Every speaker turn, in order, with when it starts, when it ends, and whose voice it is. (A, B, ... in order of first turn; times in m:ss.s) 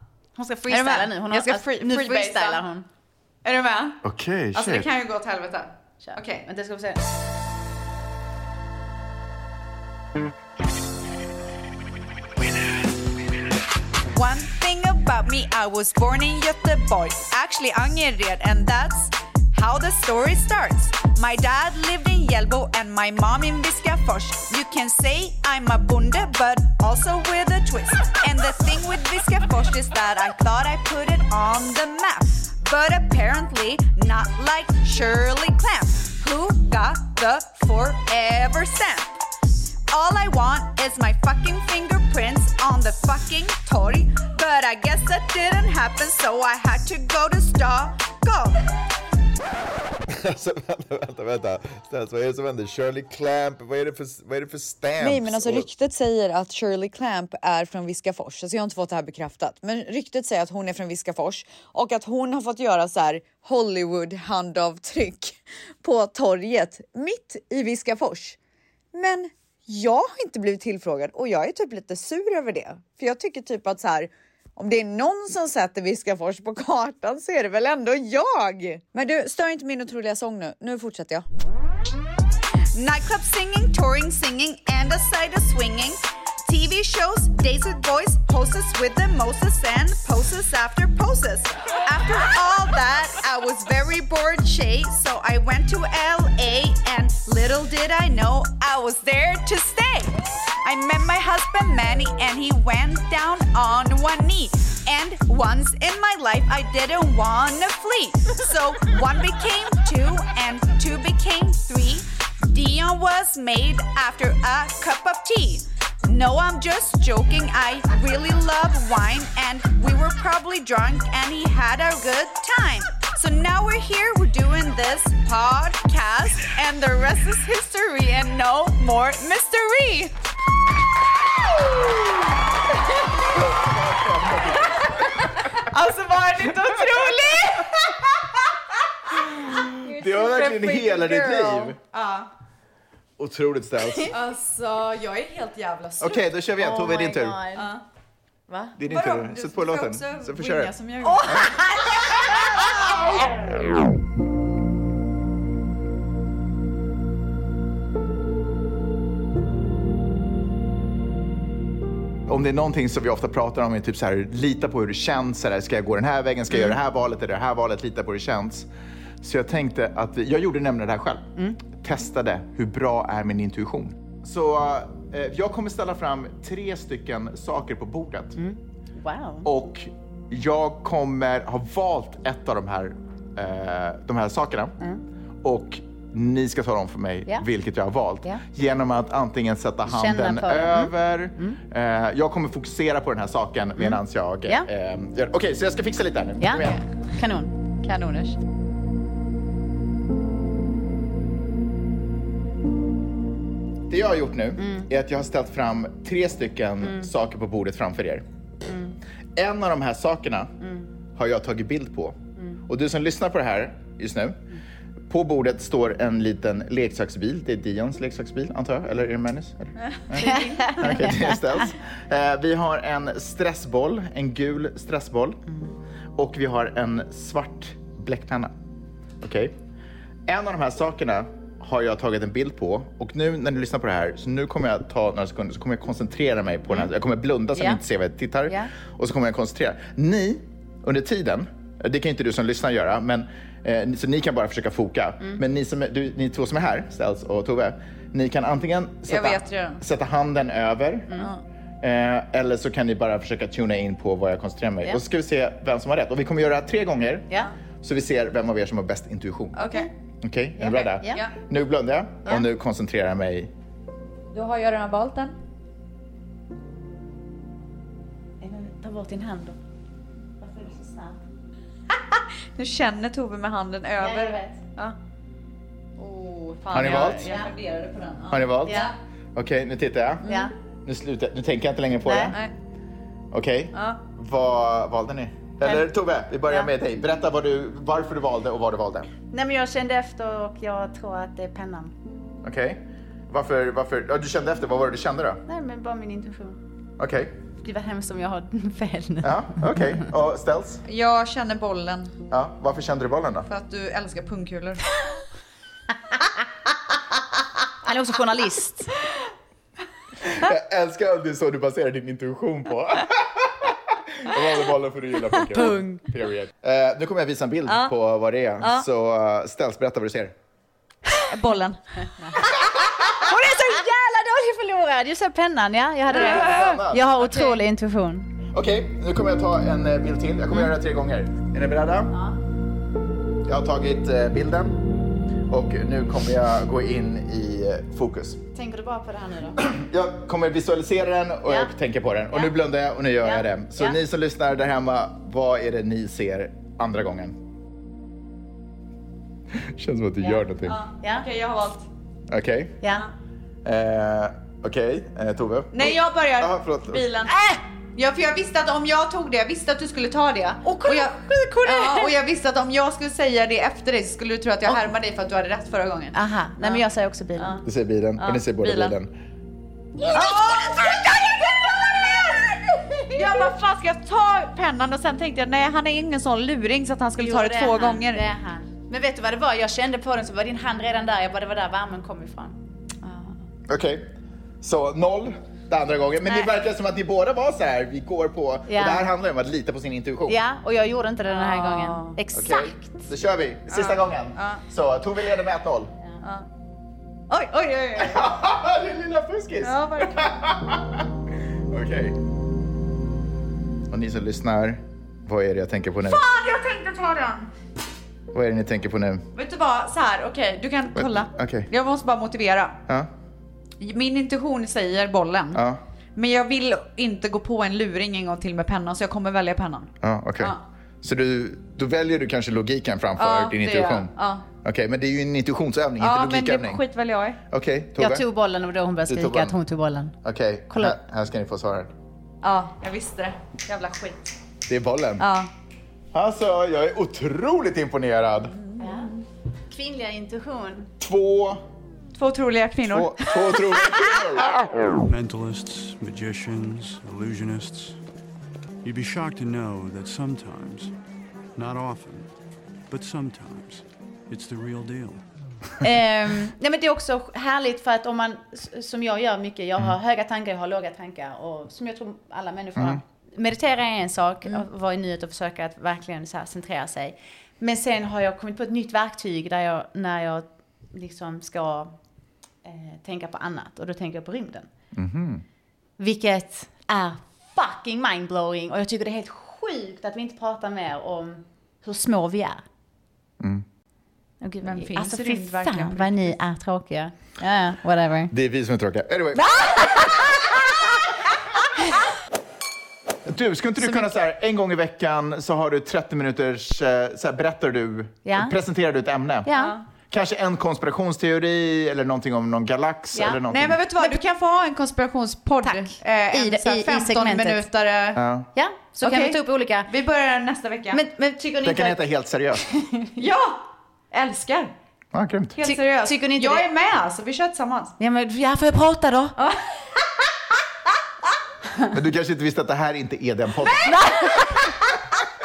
0:00.4-0:02.9 A
0:00.7-0:02.6 B
0:03.4-0:04.0 B
0:04.0-0:04.9 C
0:04.5-0:06.5 B
0:06.0-0:07.0 A
0:14.1-0:39.2 B
0:39.9-0:48.6 B
0:50.1-0:55.7 C
0:55.0-1:08.4 D
1:08.9-1:21.2 D
1:22.7-2:10.2 B
2:11.5-2:12.3 C
2:12.8-2:15.5 C
2:15.6-2:17.7 B
2:19.1-2:21.8 C
2:19.8-2:21.7 A
2:21.9-2:22.3 B
2:23.2-2:24.2 C
2:24.1-2:26.2 B
2:26.0-2:27.4 C
2:26.6-2:27.7 A
2:27.6-2:27.8 B
2:28.5-2:28.8 A
2:28.8-2:32.8 C
2:28.9-2:31.5 B
2:31.0-2:33.0 A
2:42.3-2:48.7 C
2:49.2-2:58.4 C
2:58.4-2:59.5 A
2:59.4-3:04.8 C
3:05.4-3:16.8 C
3:09.9-3:11.6 A
3:13.8-3:14.7 A
3:16.4-3:17.5 A
3:17.8-3:18.4 B
3:23.9-3:28.2 C
3:24.6-3:24.9 A
3:26.8-3:27.1 A
3:28.7-3:29.0 A
3:29.4-3:30.5 C
3:30.6-3:30.9 A
3:31.2-3:32.2 C
3:32.7-3:34.4 C
3:35.1-3:45.4 C
3:39.9-3:41.3 B
3:40.2-3:41.7 A
3:46.2-3:48.5 C
3:49.2-3:49.5 C
3:50.3-4:11.2 C
4:09.1-4:09.8 B
4:11.8-4:17.3 C
4:17.8-4:19.6 C
4:19.6-4:19.9 B
4:20.2-4:23.5 C
4:20.6-4:21.2 A
4:21.0-4:21.3 B
4:24.3-4:25.4 B
4:28.4-4:29.6 A
4:30.4-4:31.2 A
4:32.6-4:35.0 B
4:34.0-4:34.6 A
4:36.0-4:38.9 B
4:36.7-4:37.3 C
4:36.7-4:37.5 A
4:38.3-4:40.3 C
4:38.6-4:38.9 A
4:40.3-4:40.5 A
4:40.8-4:42.4 C
4:42.1-4:42.4 A
4:43.3-4:49.1 C
4:43.7-4:44.0 B
4:49.3-4:51.9 A
4:52.4-4:55.4 C
4:55.5-4:56.6 A
4:57.0-4:57.4 C
4:57.6-5:00.0 A
4:59.2-5:00.8 C
5:00.9-5:02.2 B
5:02.3-5:03.5 C
5:03.5-5:04.8 B
5:07.8-5:08.9 A
5:10.2-5:20.3 C
5:15.5-5:16.0 A
5:21.3-5:21.8 B
5:22.3-5:28.3 A
5:26.1-5:27.6 B
5:26.1-5:27.2 C
5:28.5-5:32.1 C
5:33.4-5:34.8 C
5:35.5-5:38.4 C
5:38.5-5:39.6 A
5:39.6-5:47.4 C
5:43.2-5:44.0 A
5:49.5-5:50.8 C
5:50.7-5:51.9 B
5:51.0-5:51.3 A
5:52.3-5:52.8 C
5:53.6-5:57.0 C
5:55.7-5:57.3 B
5:57.3-5:57.6 A
5:58.0-6:06.8 B
6:00.7-6:02.1 A
6:06.1-6:07.6 A
6:07.4-6:07.6 B
6:07.6-6:09.1 C
6:08.2-6:09.0 B
6:10.1-6:11.5 B
6:10.1-6:13.4 A
6:13.1-6:18.2 B
6:17.2-6:23.3 A
6:23.7-6:24.1 C
6:24.6-6:30.4 C
6:28.7-6:29.1 A
6:30.3-6:33.1 A
6:31.3-6:32.2 B
6:32.3-6:35.9 C
6:33.7-6:34.6 B
6:37.3-6:38.3 B
6:38.0-6:41.1 C
6:39.6-6:40.3 B
6:41.7-6:42.2 C
6:43.9-6:46.2 C
6:46.0-6:47.5 B
6:48.3-6:49.2 C
6:49.3-6:52.8 B
6:51.0-6:51.7 C
6:53.8-6:55.6 B
6:55.5-6:55.8 C
6:56.2-7:00.6 B
7:00.0-7:06.8 C
7:03.2-7:04.5 B
7:06.0-7:07.4 B
7:07.5-7:08.3 C
7:08.0-7:10.1 A
7:09.1-7:09.6 C
7:10.2-7:11.9 C
7:10.7-7:11.0 A
7:12.4-7:14.2 B
7:14.7-7:15.3 C
7:15.2-7:15.5 B
7:16.1-7:18.5 C
7:18.4-7:19.2 B
7:18.8-7:19.1 A
7:19.7-7:20.9 A
7:21.0-7:21.6 C
7:22.2-7:23.8 B
7:22.9-7:24.6 C
7:25.1-7:28.0 E
7:28.8-7:30.9 E
7:31.6-7:32.3 E
7:32.9-7:35.2 E
7:35.8-7:52.0 A
7:42.8-7:43.0 C
7:52.6-7:54.7 A
7:54.9-7:55.4 C
7:56.0-8:02.6 A
8:03.4-8:03.6 C
8:04.4-8:08.3 A
8:04.6-8:06.4 B
8:08.3-8:10.1 C
8:09.4-8:10.5 A
8:13.3-8:19.5 C
8:18.2-8:18.5 A
8:19.4-8:19.8 A
8:19.5-8:19.8 B
8:20.1-8:23.8 C
8:23.1-8:23.4 A
8:23.5-8:28.2 B
8:25.6-8:27.6 A
8:28.2-8:28.5 C
8:28.5-8:29.9 A
8:29.0-8:31.0 B
8:30.9-8:32.0 A
8:31.6-8:32.6 C
8:32.6-8:33.2 A
8:33.2-8:34.7 B
8:35.1-8:35.6 C
8:35.6-8:38.0 B
8:35.6-8:36.7 A
8:38.0-8:39.4 A
8:41.9-8:43.9 C
8:43.6-8:44.4 B
8:43.9-8:44.7 A